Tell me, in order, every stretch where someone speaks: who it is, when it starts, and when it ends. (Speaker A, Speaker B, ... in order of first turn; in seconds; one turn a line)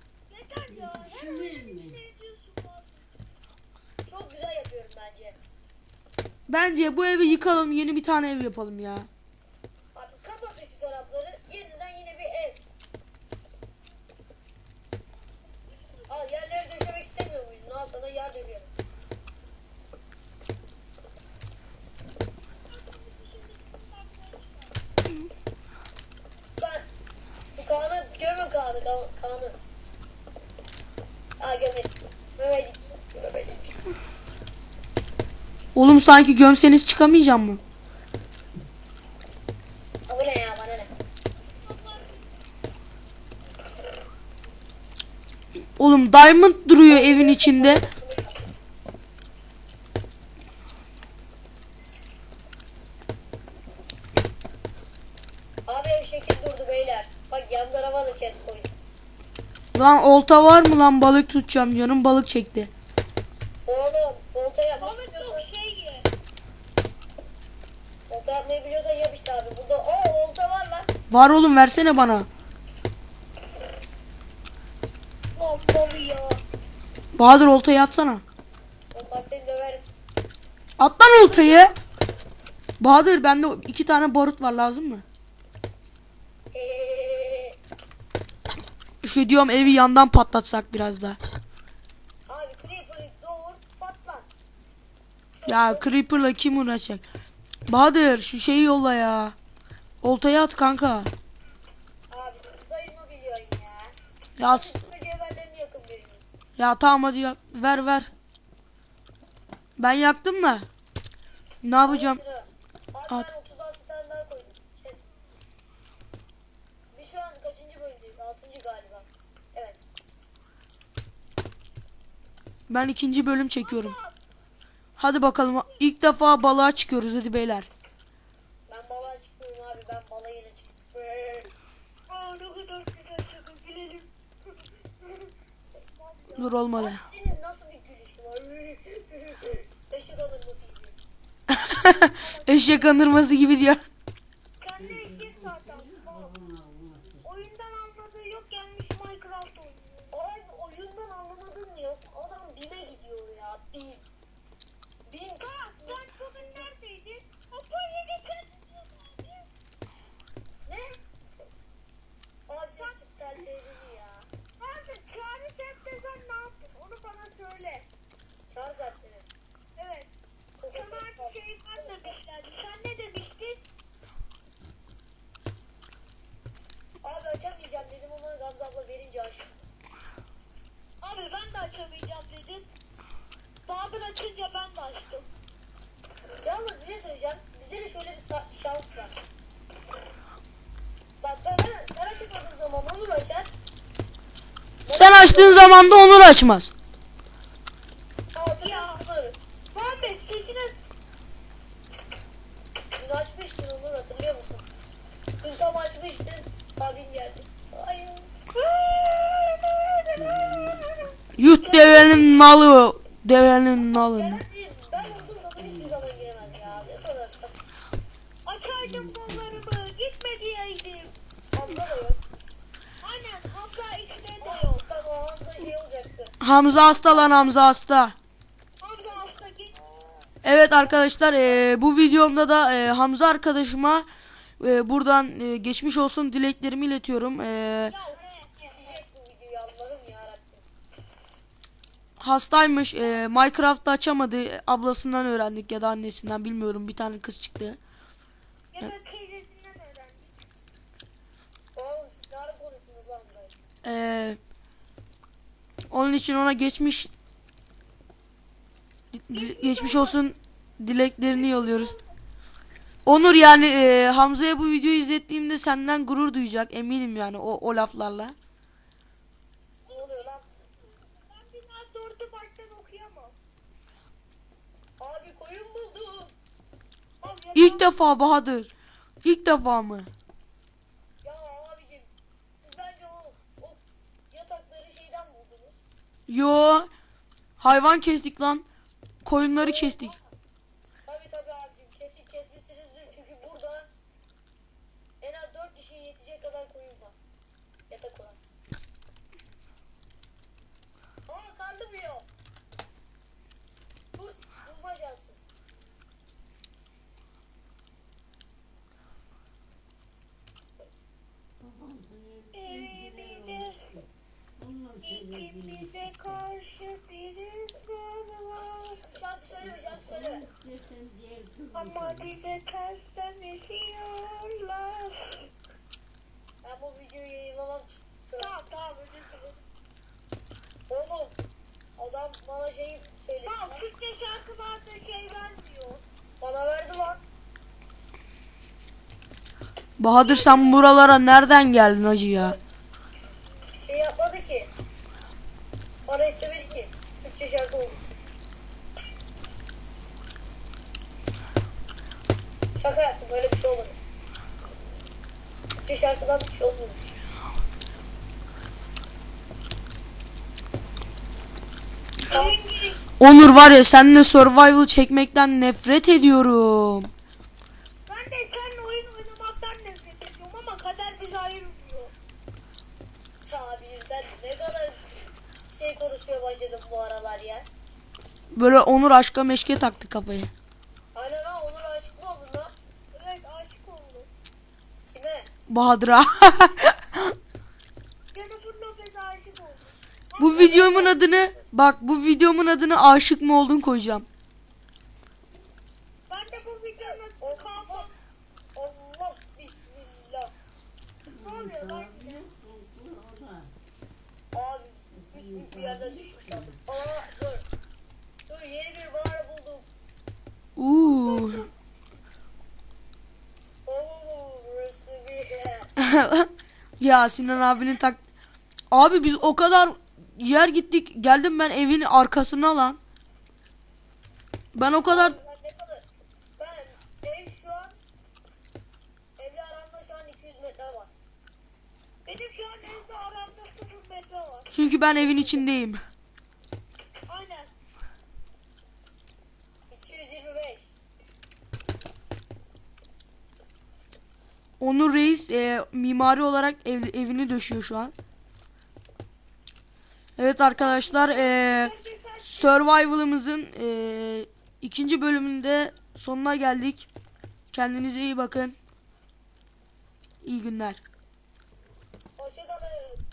Speaker A: 0.3-3.1
Speaker B: 0.7-2.0
Speaker C: 4.1-5.4
Speaker D: 6.5-9.1
Speaker C: 9.9-12.6
Speaker C: 16.1-18.7
Speaker A: 22.7-24.8
Speaker C: 26.5-26.9
Speaker C: 27.6-29.6
Speaker C: 31.4-33.8
Speaker D: 35.8-37.6
Speaker C: 40.1-40.9
Speaker A: 41.6-42.3
Speaker D: 45.8-47.8
Speaker C: 46.9-48.4
Speaker C: 55.7-58.7
Speaker D: 59.8-62.7
Speaker C: 63.7-65.5
Speaker A: 64.8-66.1
Speaker C: 68.1-70.9
Speaker D: 71.1-72.3
Speaker A: 75.3-76.4
Speaker D: 77.1-78.2
Speaker C: 78.9-79.8
Speaker D: 80.8-81.7
Speaker C: 81.2-81.7
Speaker D: 82.8-85.0
Speaker C: 86.5-87.6
Speaker D: 89.0-91.2
Speaker C: 92.3-94.3
Speaker C: 95.4-96.0
Speaker D: 95.5-97.0
Speaker D: 97.7-99.3
Speaker D: 100.0-101.1
Speaker C: 102.1-103.9
Speaker D: 104.4-104.8
Speaker C: 104.5-106.3
Speaker D: 106.6-108.1
Speaker D: 109.8-110.7
Speaker D: 111.6-112.2
Speaker C: 111.8-115.1
Speaker C: 116.9-119.8
Speaker D: 122.7-123.9
Speaker A: 123.6-124.2
Speaker D: 125.0-127.7
Speaker C: 128.7-131.5
Speaker A: 132.1-135.3
Speaker A: 135.9-136.6
Speaker D: 136.3-137.0
Speaker C: 136.8-140.9
Speaker D: 141.5-143.8
Speaker C: 142.0-142.8
Speaker A: 144.6-146.3
Speaker B: 144.8-147.3
Speaker A: 147.2-150.1
Speaker C: 150.1-154.0
Speaker C: 155.1-156.7
Speaker A: 155.4-159.5
Speaker C: 162.5-164.3
Speaker A: 164.6-167.9
Speaker C: 168.5-169.3
Speaker A: 169.8-170.1
Speaker C: 170.6-172.0
Speaker A: 170.7-173.6
Speaker C: 177.0-179.7
Speaker A: 181.0-182.7
Speaker A: 183.7-185.3
Speaker C: 186.4-189.1
Speaker C: 191.2-193.5
Speaker C: 194.8-196.0
Speaker D: 194.9-196.7
Speaker C: 198.3-200.1
Speaker A: 198.6-199.0
Speaker A: 199.7-200.8
Speaker C: 203.0-204.6
Speaker C: 205.4-208.3
Speaker A: 208.6-210.2
Speaker B: 210.1-210.9
Speaker A: 210.8-212.4
Speaker D: 211.4-214.4
Speaker C: 213.9-217.6
Speaker B: 214.9-216.9
Speaker A: 218.4-221.1
Speaker B: 218.8-219.7
Speaker C: 221.5-222.2
Speaker A: 223.0-224.8
Speaker C: 224.4-227.5
Speaker D: 226.4-228.2
Speaker A: 228.8-230.3
Speaker D: 230.4-234.1
Speaker D: 234.6-237.9
Speaker A: 237.9-238.5
Speaker C: 238.6-240.6
Speaker D: 242.2-247.8
Speaker A: 248.7-250.4
Speaker C: 251.7-253.6
Speaker D: 253.8-254.4
Speaker D: 255.9-257.1
Speaker D: 259.1-261.9
Speaker A: 259.3-260.2
Speaker A: 261.3-262.1
Speaker D: 263.1-268.4
Speaker C: 269.9-270.4
Speaker A: 271.1-273.4
Speaker C: 275.0-276.3
Speaker A: 277.2-278.0
Speaker D: 277.5-278.7
Speaker D: 279.2-280.1
Speaker C: 281.2-285.8
Speaker D: 286.3-286.9
Speaker D: 287.6-288.6
Speaker D: 289.2-290.2
Speaker C: 289.6-290.1
Speaker C: 291.1-293.9
Speaker C: 295.2-297.1
Speaker C: 297.9-298.4
Speaker C: 301.3-302.3
Speaker C: 304.1-305.4
Speaker B: 311.6-316.4
Speaker A: 312.5-313.8
Speaker A: 315.0-319.0
Speaker C: 318.5-320.4
Speaker B: 319.6-322.4
Speaker A: 321.7-325.5
Speaker C: 326.6-328.7
Speaker A: 328.4-329.6
Speaker C: 330.9-331.4
Speaker C: 332.0-333.8
Speaker A: 333.4-336.0
Speaker C: 336.4-337.2
Speaker D: 340.0-342.6
Speaker A: 340.2-340.9
Speaker C: 343.8-344.7
Speaker C: 346.1-348.0
Speaker C: 352.8-353.9
Speaker C: 355.8-357.1
Speaker C: 362.3-362.6
Speaker A: 362.3-363.0
Speaker D: 363.2-367.1
Speaker A: 368.1-372.1
Speaker C: 373.4-375.0
Speaker C: 375.7-377.7
Speaker D: 378.5-380.5
Speaker C: 381.1-382.7
Speaker A: 383.1-384.3
Speaker C: 385.1-385.5
Speaker D: 385.7-387.3
Speaker A: 388.3-390.7
Speaker D: 390.4-394.3
Speaker C: 390.4-391.6
Speaker A: 396.3-398.1
Speaker C: 397.0-398.1
Speaker C: 398.7-400.5
Speaker B: 401.3-403.7
Speaker A: 401.4-402.4
Speaker C: 404.5-407.7
Speaker B: 405.1-406.8
Speaker C: 408.5-409.9
Speaker D: 410.8-411.7
Speaker C: 411.1-411.5
Speaker C: 413.9-415.9
Speaker D: 416.0-416.5
Speaker D: 417.0-418.2
Speaker D: 418.9-423.0
Speaker D: 424.7-425.3
Speaker C: 424.9-426.1
Speaker C: 426.6-427.9
Speaker C: 429.4-431.1
Speaker A: 432.3-434.7
Speaker D: 434.7-436.0
Speaker C: 435.1-435.6
Speaker A: 437.3-437.7
Speaker C: 439.9-440.9
Speaker D: 444.8-448.1
Speaker D: 450.4-457.1
Speaker A: 450.7-452.8
Speaker D: 457.7-458.8
Speaker D: 460.4-461.0
Speaker C: 462.4-463.2